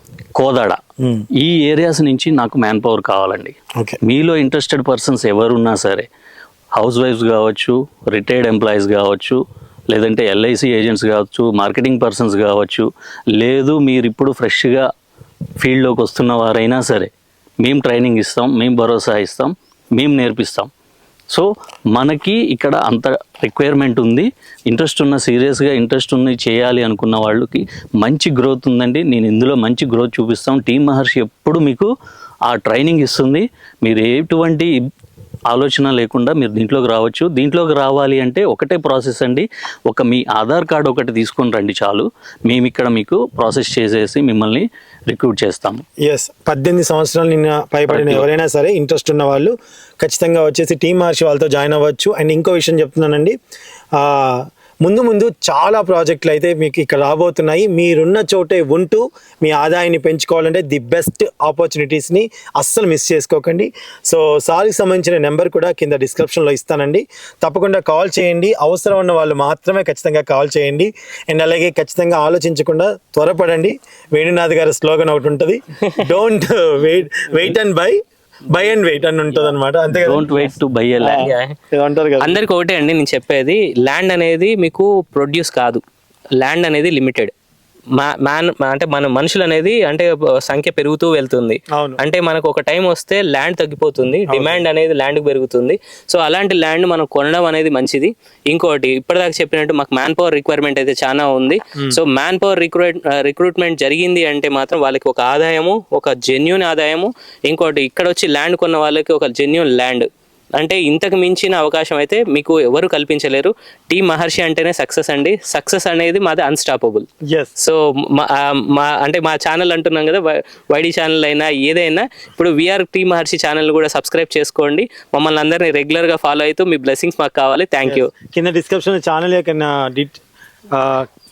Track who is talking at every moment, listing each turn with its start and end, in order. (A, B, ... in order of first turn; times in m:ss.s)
0:00.4-0:00.8 A
0:01.4-0:06.1 A
0:06.8-0:09.4 A
0:09.9-0:14.8 A
0:15.6-0:17.1 A
0:17.6-0:20.7 A
0:21.3-0:31.9 A
0:32.5-0:34.7 A
0:35.5-0:45.8 A
0:46.0-0:53.4 B
0:47.9-0:48.3 A
0:54.0-1:18.0 B
1:18.5-1:20.4 B
1:19.9-1:21.3 A
1:21.0-1:22.4 B
1:21.2-1:21.6 C
1:22.2-1:25.8 C
1:26.4-1:27.3 C
1:28.0-1:50.1 C
1:34.3-1:34.6 B
1:50.6-1:57.1 C
1:57.6-2:08.1 C
2:07.9-2:10.2 B
2:10.8-2:11.1 B